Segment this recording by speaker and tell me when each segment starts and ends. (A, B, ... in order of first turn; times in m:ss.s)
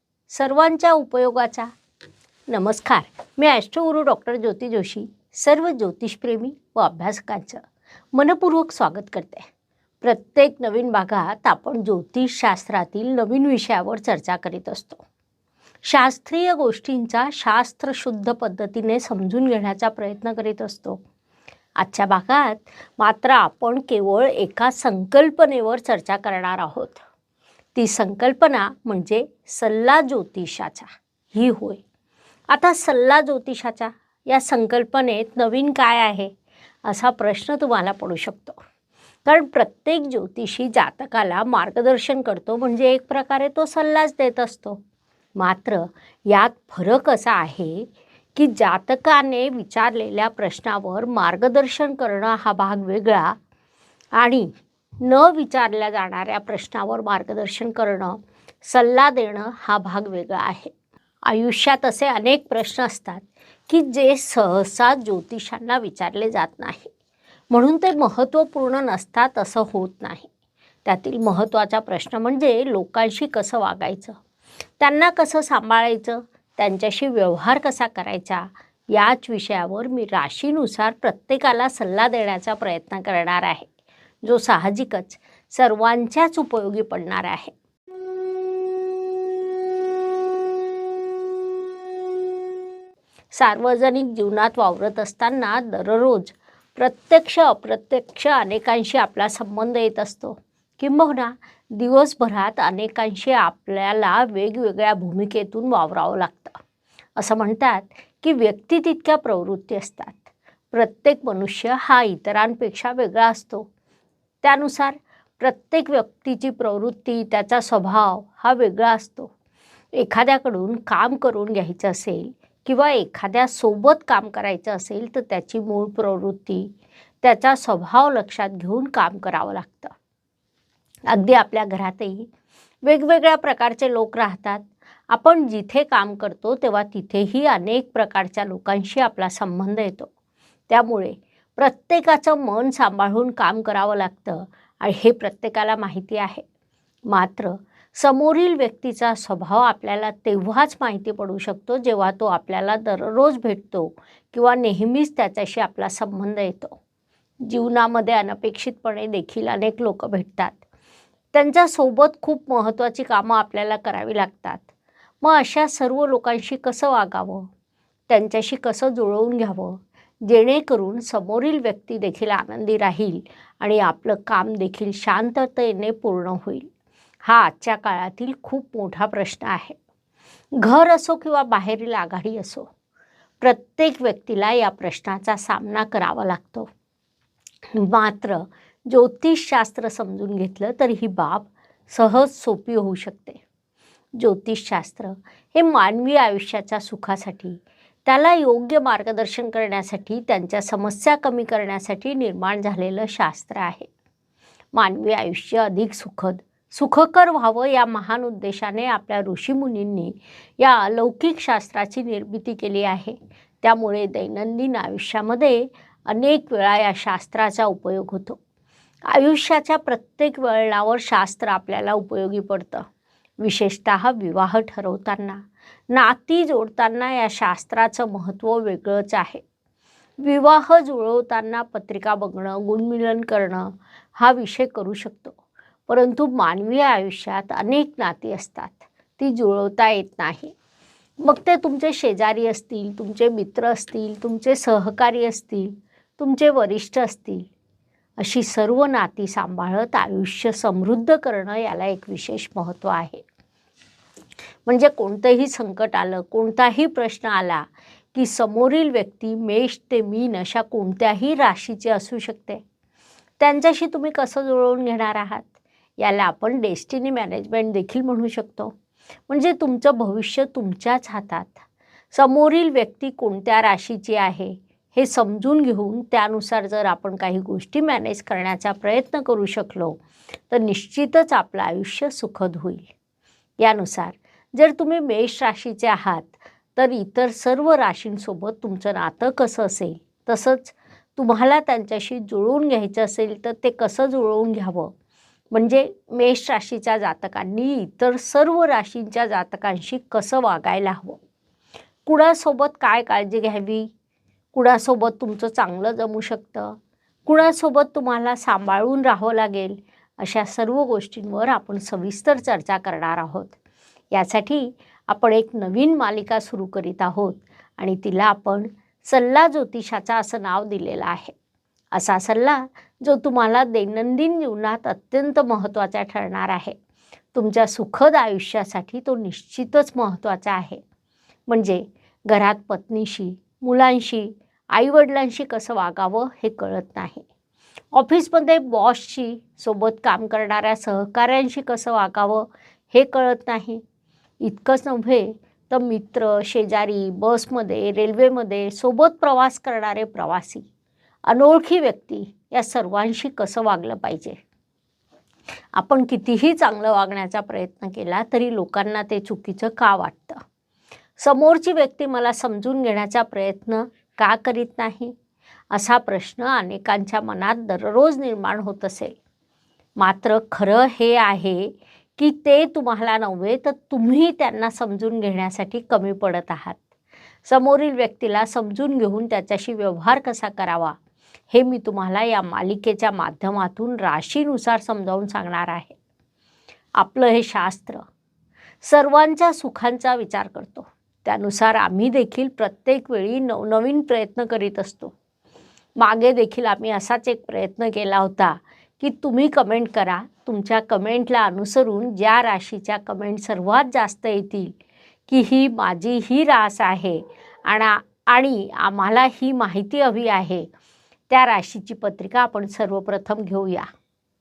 0:00.3-0:01.7 A
0:02.5-0:07.6 A
0:08.1-0:09.5 A
0:10.0-0:15.0 A
0:15.9-0:21.0 A
0:21.8-0:27.0 A
0:27.8-0:31.8 A
0:32.5-0:36.3 A
0:36.8-0:38.6 A
0:39.3-0:44.8 A
0:45.4-0:53.4 A
0:54.2-0:54.5 A
0:55.0-1:00.7 A
1:01.3-1:06.9 A
1:07.5-1:10.3 A
1:10.8-1:14.2 A
1:14.8-1:23.7 A
1:24.2-1:27.5 A
1:33.3-1:46.6 A
1:47.2-1:53.7 A
1:54.4-1:59.3 A
2:00.0-2:06.7 A
2:07.2-2:09.9 A
2:11.1-2:12.3 A
2:12.8-2:20.1 A
2:20.7-2:26.4 A
2:27.1-2:36.8 A
2:37.4-2:40.6 A
2:41.3-2:44.7 A
2:45.2-2:47.4 A
2:48.1-2:56.7 A
2:57.2-2:59.8 A
3:00.6-3:02.7 A
3:03.4-3:06.7 A
3:07.7-3:13.4 A
3:14.2-3:23.9 A
3:24.7-3:38.4 A
3:39.1-3:42.9 A
3:43.4-3:49.4 A
3:50.2-3:55.4 A
3:55.9-4:00.5 A
4:01.2-4:07.5 A
4:08.2-4:13.2 A
4:14.7-4:22.6 A
4:23.4-4:25.5 A
4:26.0-4:28.7 A
4:29.3-4:42.9 A
4:43.6-4:54.9 A
4:55.5-5:01.2 A
5:02.1-5:03.9 A
5:04.5-5:13.6 A
5:14.1-5:21.3 A
5:21.9-5:26.8 A
5:27.3-5:30.8 A
5:31.5-5:37.2 A
5:37.9-5:43.8 A
5:44.4-5:50.6 A
5:51.3-5:54.4 A
5:55.8-6:00.4 A
6:01.2-6:05.1 A
6:05.7-6:09.2 A
6:10.0-6:16.8 A
6:17.5-6:21.0 A
6:21.5-6:26.0 A
6:27.0-6:28.0 A
6:28.8-6:35.1 A
6:36.0-6:44.8 A
6:45.3-6:50.7 A
6:51.3-6:53.9 A